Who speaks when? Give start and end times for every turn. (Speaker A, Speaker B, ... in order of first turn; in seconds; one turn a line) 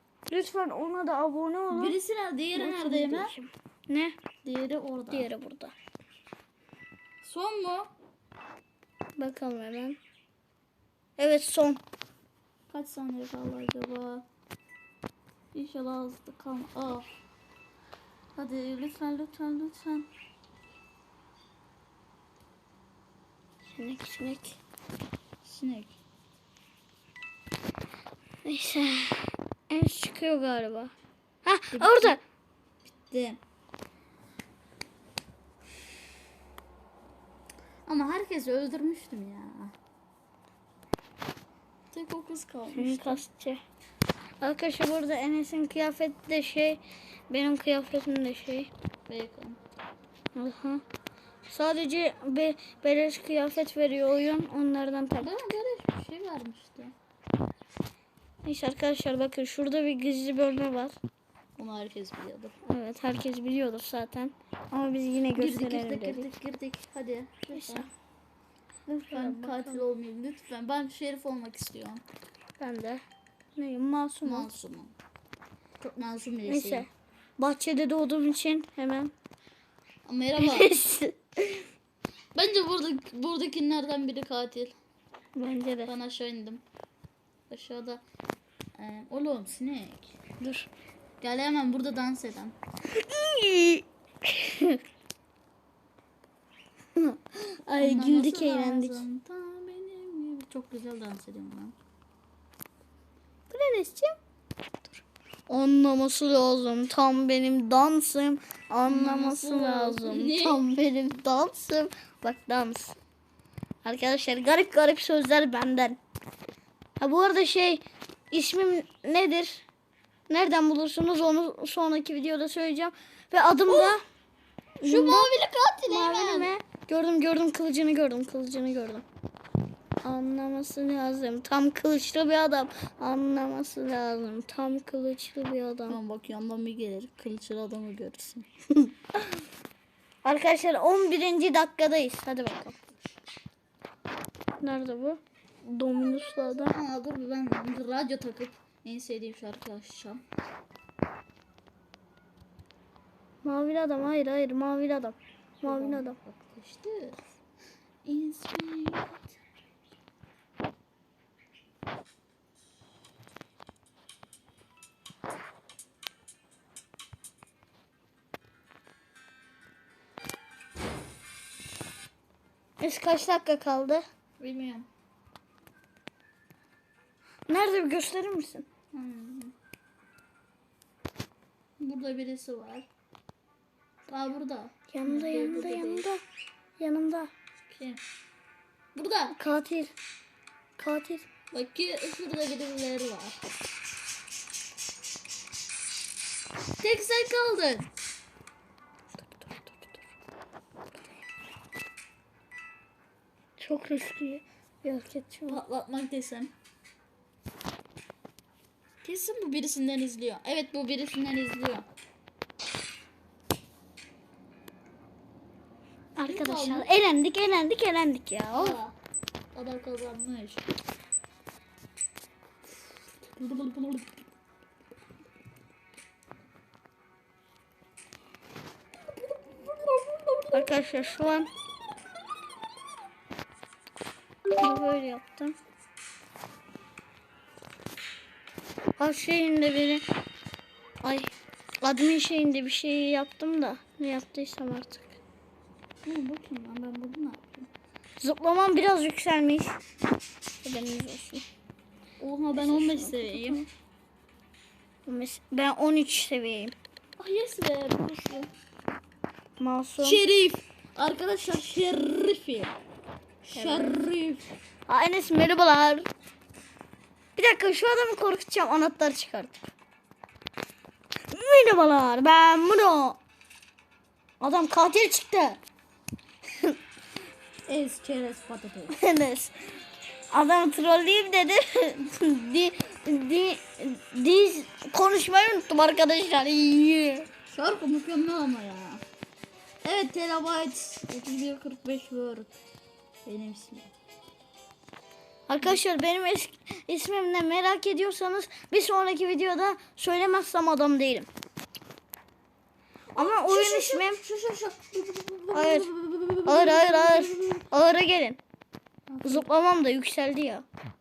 Speaker A: 0.3-2.0
Speaker B: 1.7-3.4
Speaker A: 2.5-4.2
Speaker B: 4.5-5.3
Speaker A: 5.1-5.8
Speaker B: 7.2-7.9
Speaker A: 9.2-10.0
Speaker A: 11.2-11.8
Speaker B: 12.7-14.3
Speaker B: 15.5-17.1
Speaker B: 18.4-20.1
Speaker A: 23.7-24.6
Speaker B: 25.4-26.0
Speaker A: 28.4-32.2
Speaker B: 31.7-32.2
Speaker B: 33.0-33.4
Speaker B: 37.9-39.7
Speaker B: 41.9-43.2
Speaker A: 42.8-43.6
Speaker A: 44.4-48.7
Speaker B: 49.1-49.6
Speaker A: 50.4-50.8
Speaker A: 51.5-55.4
Speaker B: 55.2-56.9
Speaker A: 58.4-61.0
Speaker B: 61.6-62.5
Speaker A: 62.6-66.3
Speaker B: 65.4-67.9
Speaker A: 67.5-67.9
Speaker A: 68.9-69.8
Speaker B: 69.1-72.0
Speaker A: 72.6-73.0
Speaker A: 73.6-74.5
Speaker B: 74.2-74.9
Speaker B: 75.8-76.9
Speaker A: 76.5-79.1
Speaker B: 80.1-80.7
Speaker A: 80.4-81.7
Speaker B: 82.3-84.8
Speaker A: 85.3-85.9
Speaker B: 85.8-86.6
Speaker B: 87.5-88.0
Speaker B: 88.8-90.2
Speaker A: 90.4-90.7
Speaker B: 91.2-92.6
Speaker A: 92.9-94.8
Speaker A: 97.0-99.0
Speaker B: 97.8-101.8
Speaker A: 103.5-104.2
Speaker A: 104.8-113.0
Speaker B: 108.8-110.6
Speaker A: 113.8-116.0
Speaker A: 117.0-119.7
Speaker A: 120.3-124.0
Speaker B: 123.7-124.0
Speaker A: 124.8-125.3
Speaker B: 124.8-126.5
Speaker A: 125.9-129.1
Speaker A: 130.0-136.0
Speaker B: 135.9-138.5
Speaker A: 138.8-139.2
Speaker A: 140.2-142.9
Speaker A: 144.6-146.8
Speaker B: 146.2-150.2
Speaker A: 153.4-156.2
Speaker B: 155.6-157.2
Speaker B: 158.1-159.4
Speaker A: 172.8-174.0
Speaker B: 174.4-174.9
Speaker A: 177.5-178.7
Speaker B: 178.9-179.5
Speaker B: 181.8-182.9
Speaker B: 184.1-186.1
Speaker A: 184.9-186.2
Speaker A: 186.8-187.3
Speaker B: 187.7-188.0
Speaker B: 188.9-189.4
Speaker A: 189.3-189.9
Speaker A: 190.8-191.3
Speaker B: 191.5-193.4
Speaker B: 196.8-197.9
Speaker A: 199.2-200.0
Speaker A: 203.6-205.6
Speaker B: 205.5-206.5
Speaker B: 209.0-211.9
Speaker A: 216.2-218.8
Speaker B: 216.2-216.9
Speaker B: 218.6-219.0
Speaker B: 219.6-220.7
Speaker B: 223.4-224.3
Speaker B: 229.2-230.8
Speaker A: 230.5-231.5
Speaker A: 234.6-235.6
Speaker A: 239.0-240.0
Speaker A: 241.0-245.2
Speaker B: 246.1-247.7
Speaker A: 248.2-249.8
Speaker A: 250.6-251.5
Speaker B: 252.2-253.7
Speaker A: 252.5-253.6
Speaker A: 255.1-256.8
Speaker B: 257.2-258.5
Speaker A: 259.6-260.2
Speaker B: 260.0-262.8
Speaker B: 263.4-264.4
Speaker A: 263.6-264.0
Speaker A: 264.9-266.1
Speaker A: 267.4-269.7
Speaker A: 271.3-273.2
Speaker A: 274.4-275.6
Speaker B: 277.7-279.0
Speaker A: 278.9-279.5
Speaker A: 280.3-287.3
Speaker B: 287.5-289.0
Speaker B: 289.8-292.5
Speaker B: 293.3-293.9
Speaker A: 295.5-301.3
Speaker A: 303.1-304.2
Speaker B: 303.1-307.6
Speaker A: 305.5-305.9
Speaker A: 306.5-308.4
Speaker B: 309.1-309.5
Speaker A: 309.2-310.7